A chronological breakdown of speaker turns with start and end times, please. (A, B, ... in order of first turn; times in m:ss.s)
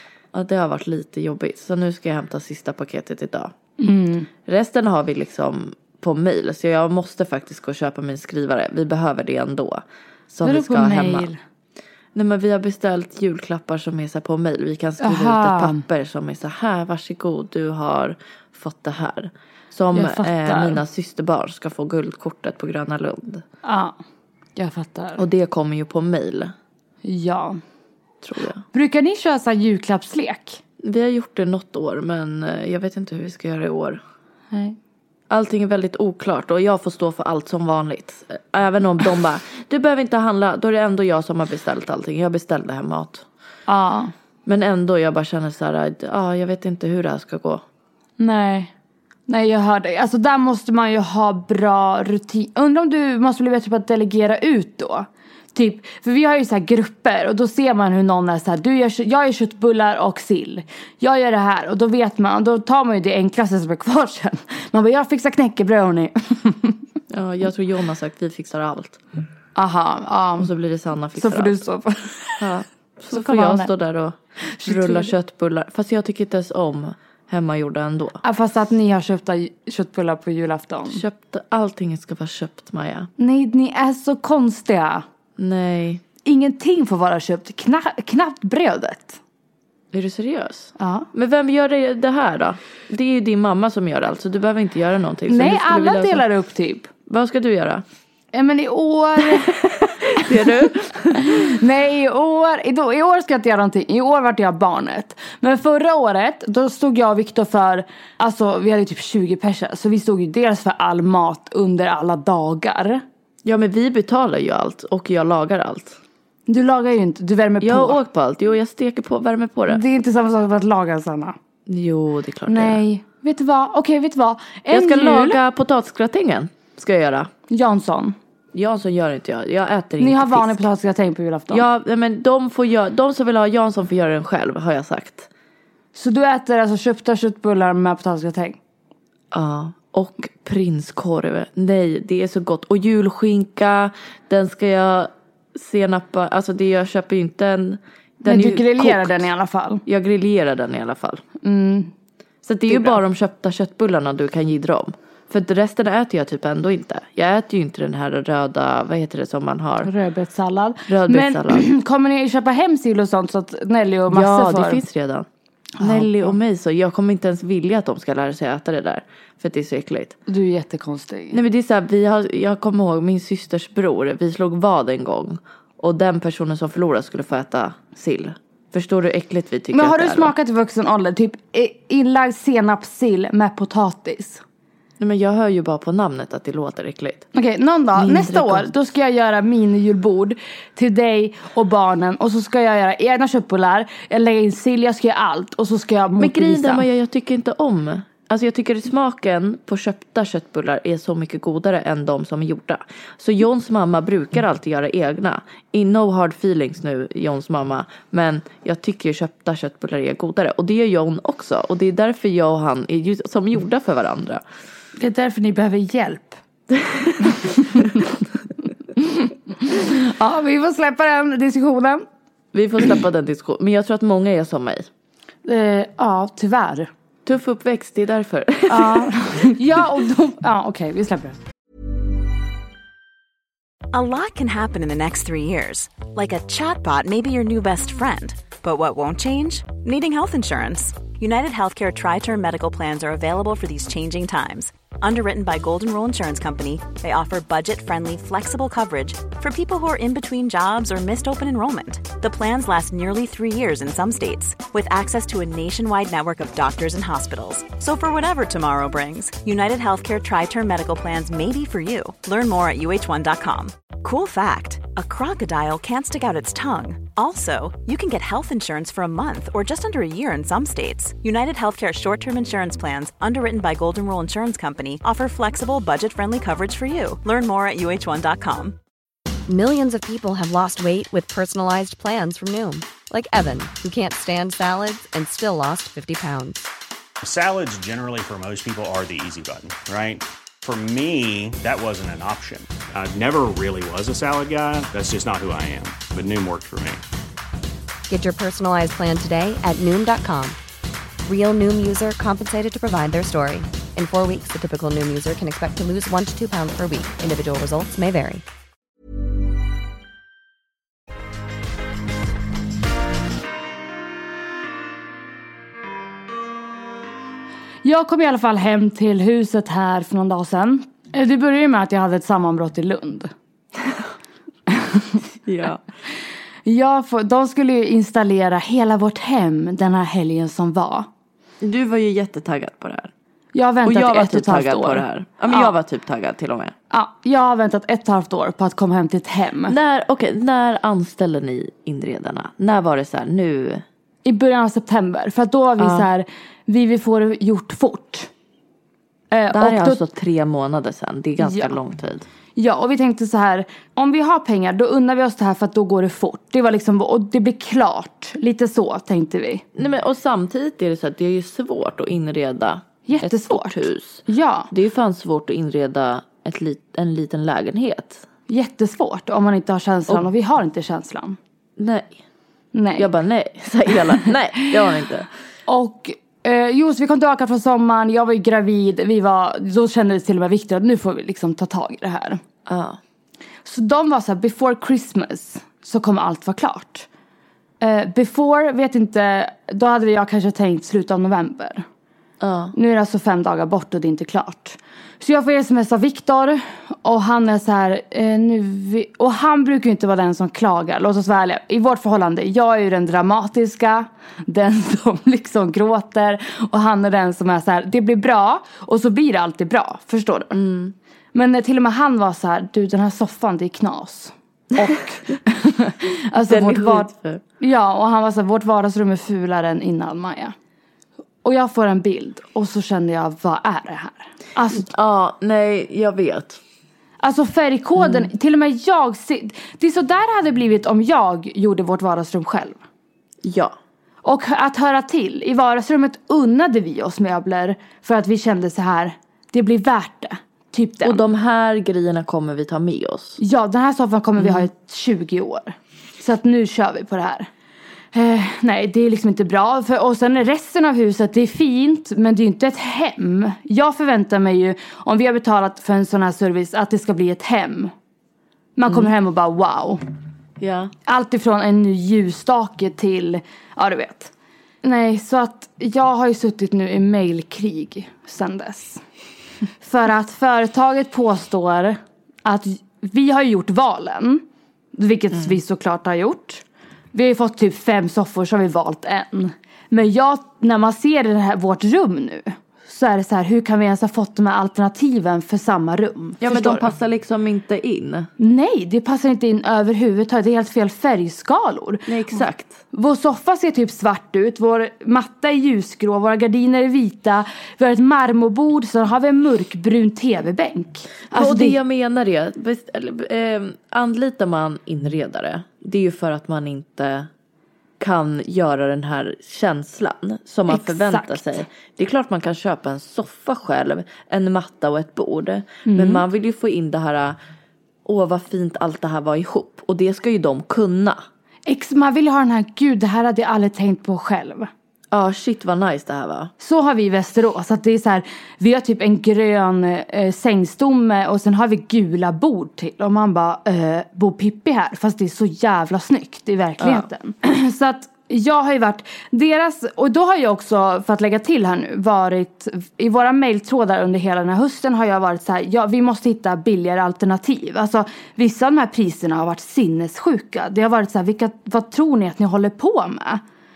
0:00.3-0:03.5 A
0:03.8-0:04.3 B
0:04.4-0:11.3 A
0:10.4-0:11.4 B
0:12.1-0:23.4 A
0:15.0-0:15.8 B
0:19.9-0:20.8 B
0:23.6-0:24.0 B
0:24.6-0:25.2 B
0:25.2-0:26.5 A
0:27.0-0:27.6 B
0:28.2-0:28.6 A
0:28.7-0:30.6 B
0:30.8-0:34.0 A
0:34.5-0:34.8 B
0:35.3-0:43.2 A
0:43.7-0:44.1 B
0:44.4-0:47.6 A
0:48.2-0:48.7 B
0:49.3-1:06.8 B
1:07.1-1:09.0 A
1:09.5-1:10.5 B
1:10.4-1:11.6 A
1:11.2-1:12.5 B
1:12.4-1:18.2 A
1:13.1-1:13.7 B
1:14.6-1:15.1 B
1:18.2-1:21.0 B
1:20.9-1:23.1 A
1:23.2-1:25.0 B
1:25.4-1:26.0 A
1:26.2-1:29.2 B
1:29.9-1:36.2 A
1:30.8-1:31.1 B
1:35.3-1:36.9 B
1:37.1-1:37.8 A
1:38.3-1:53.0 B
1:39.2-1:41.6 A
1:53.4-1:56.0 A
1:56.5-1:58.0 B
1:57.6-1:59.8 A
1:59.7-2:01.4 B
2:01.7-2:02.8 A
2:02.5-2:05.4 B
2:04.7-2:07.3 A
2:07.5-2:08.2 B
2:08.5-2:10.7 A
2:10.0-2:11.6 B
2:11.5-2:15.3 A
2:15.9-2:18.6 B
2:19.3-2:29.3 A
2:28.2-2:29.8 B
2:29.8-2:31.2 A
2:31.4-2:31.9 B
2:32.4-2:39.9 A
2:32.7-2:33.0 B
2:39.8-2:44.8 B
2:40.9-2:41.7 A
2:44.1-2:45.3 A
2:45.8-2:46.3 B
2:45.8-2:50.2 A
2:50.3-2:51.4 B
2:51.3-3:00.3 A
2:59.7-3:04.4 B
3:05.0-3:07.3 A
3:07.3-3:16.8 B
3:07.9-3:08.7 A
3:16.2-3:34.4 A
3:35.0-3:36.4 B
3:36.7-3:37.8 A
3:37.3-3:38.0 B
3:39.0-3:42.0 B
3:42.5-3:44.9 A
3:45.4-3:46.9 B
3:47.2-3:49.5 A
3:48.7-3:51.4 B
3:53.9-4:38.8 C
4:39.5-4:46.7 D
4:47.2-4:57.0 E
4:58.1-5:00.6 D
5:01.2-5:08.4 D
5:17.8-5:23.3 B
5:23.8-5:24.1 A
5:24.7-5:25.2 B
5:25.4-5:25.8 A
5:26.6-5:31.1 B
5:31.6-5:33.1 A
5:33.5-5:35.7 B
5:33.8-5:36.7 A
5:36.9-5:39.7 B
5:39.7-5:43.8 A
5:44.2-5:48.3 B
5:45.8-5:46.1 A
5:49.3-5:50.0 B
5:49.5-5:52.3 A
5:51.4-5:51.7 B
5:52.5-5:59.6 B
5:59.7-6:08.2 A
6:03.0-6:04.7 B
6:08.5-6:11.4 B
6:11.8-6:12.2 A
6:12.7-6:13.1 B
6:13.0-6:15.3 A
6:15.7-6:22.4 B
6:22.6-6:23.0 A
6:23.6-6:27.1 B
6:27.8-6:31.8 B
6:32.4-6:32.7 A
6:32.7-6:50.6 B
6:50.5-6:50.9 A
6:51.3-7:00.5 B
6:56.4-6:57.4 A
7:01.4-7:04.9 B
7:04.7-7:06.6 A
7:07.2-7:12.8 B
7:08.0-7:08.3 A
7:13.4-7:13.8 A
7:14.2-7:21.2 B
7:21.0-7:23.4 A
7:23.4-7:27.5 B
7:24.4-7:24.7 A
7:28.1-7:37.9 B
7:38.8-7:40.0 B
7:40.6-7:40.9 A
7:41.0-7:44.3 B
7:44.8-7:49.0 B
7:49.8-7:54.4 B
7:54.9-8:06.9 B
8:06.4-8:08.3 A
8:08.4-8:21.8 B
8:12.1-8:12.8 A
8:21.3-8:27.3 A
8:28.0-8:37.4 A
8:30.7-8:31.4 B
8:35.8-8:36.2 B
8:38.0-8:41.2 A
8:41.6-8:44.7 B
8:45.1-8:46.5 A
8:46.6-9:13.4 B
8:56.8-8:57.1 A